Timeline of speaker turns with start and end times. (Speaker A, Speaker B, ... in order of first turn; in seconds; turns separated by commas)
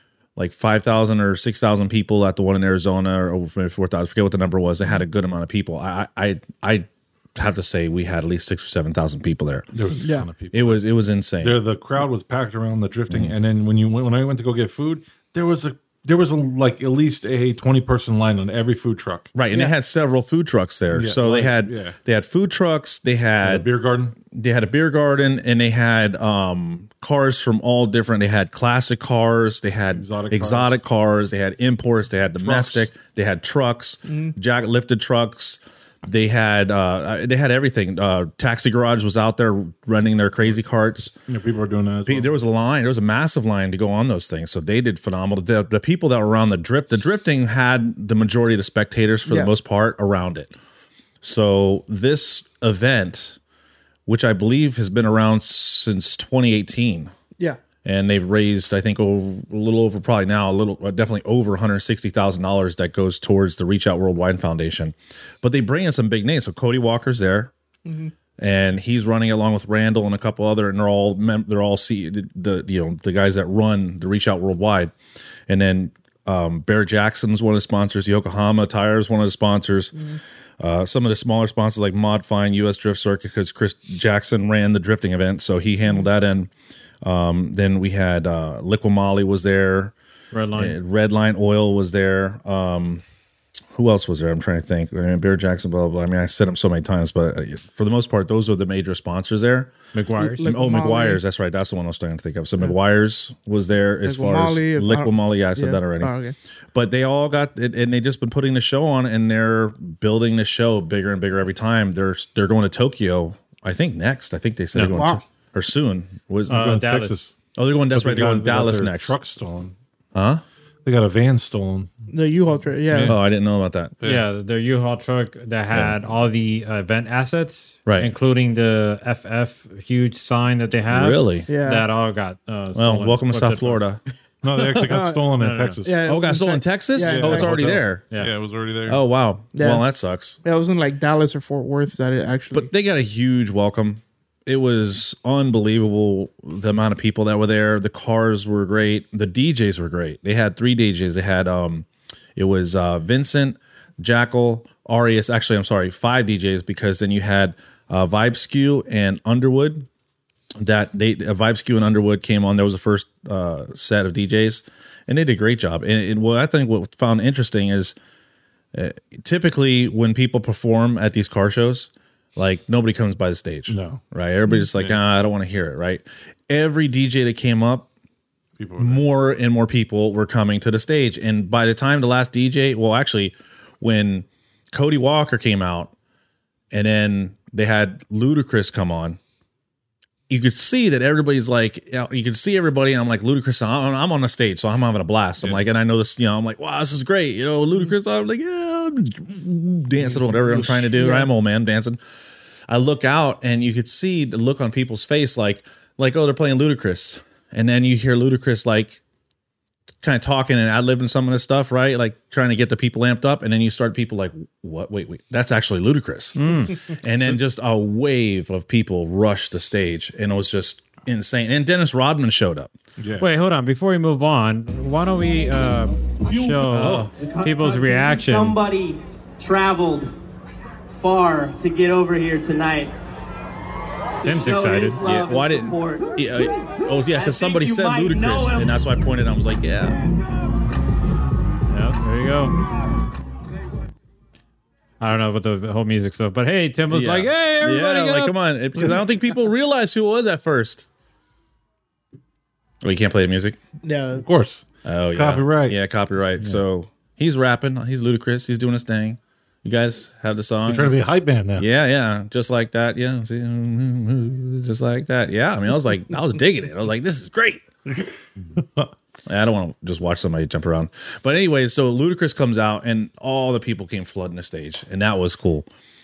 Speaker A: 0.3-9.7, Speaker B: 9.7-10.8, Speaker C: 10.0-10.3, Speaker A: 10.5-11.6, Speaker B: 11.4-19.3, Speaker A: 13.1-13.3, Speaker A: 19.3-23.7, Speaker B: 20.9-22.0, Speaker B: 23.4-24.1, Speaker A: 24.2-41.1, Speaker B: 29.9-30.8, Speaker B: 32.4-32.9, Speaker C: 34.1-34.3, Speaker B: 41.3-42.3, Speaker A: 42.0-50.5, Speaker C: 49.2-49.5, Speaker A: 51.2-53.4, Speaker A: 54.0-57.1, Speaker A: 57.8-67.5, Speaker C: 67.8-68.1, Speaker A: 68.4-74.9, Speaker A: 75.5-80.0, Speaker A: 80.6-86.5, Speaker A: 87.0-89.9, Speaker D: 90.3-90.8, Speaker A: 90.5-93.0, Speaker A: 93.7-106.1, Speaker D: 99.9-100.5, Speaker C: 100.3-101.2, Speaker C: 104.0-106.3, Speaker A: 106.7-116.7, Speaker D: 114.7-115.0, Speaker C: 114.9-115.2, Speaker D: 116.5-117.2, Speaker B: 116.5-117.3, Speaker A: 117.5-119.2, Speaker B: 117.9-119.7, Speaker A: 120.1-120.4, Speaker B: 120.8-121.9, Speaker C: 122.1-123.2, Speaker B: 122.9-123.2, Speaker A: 123.0-123.9, Speaker D: 124.0-133.8, Speaker A: 127.8-128.1, Speaker A: 130.9-131.5, Speaker C: 131.5-131.8, Speaker A: 132.7-135.0, Speaker B: 134.4-136.0, Speaker C: 134.9-135.2, Speaker D: 135.4-135.8, Speaker C: 135.8-137.8, Speaker A: 136.0-138.1, Speaker B: 137.0-139.0, Speaker A: 138.9-140.4, Speaker C: 139.5-139.8, Speaker C: 140.4-142.7, Speaker A: 142.5-159.9, Speaker A: 160.6-167.9, Speaker A: 168.7-177.9, Speaker B: 173.7-174.0, Speaker B: 174.7-175.0, Speaker B: 178.6-179.0, Speaker A: 178.8-185.9, Speaker A: 186.7-189.2, Speaker A: 190.3-202.0, Speaker C: 200.8-201.3, Speaker A: 202.7-209.0, Speaker A: 210.0-222.7, Speaker D: 216.4-216.8, Speaker B: 223.0-223.3, Speaker D: 223.2-228.6, Speaker E: 226.3-226.5, Speaker A: 226.7-227.1, Speaker E: 227.1-230.1, Speaker E: 230.9-232.9, Speaker E: 234.2-236.5, Speaker D: 234.2-235.0, Speaker A: 235.0-240.0, Speaker E: 237.1-238.7, Speaker D: 241.7-242.6, Speaker D: 245.0-248.3, Speaker A: 246.9-250.9, Speaker A: 252.8-253.6, Speaker C: 253.8-254.2, Speaker B: 254.2-255.8, Speaker A: 254.8-267.6, Speaker B: 260.7-261.6, Speaker B: 268.6-268.9, Speaker A: 269.3-275.7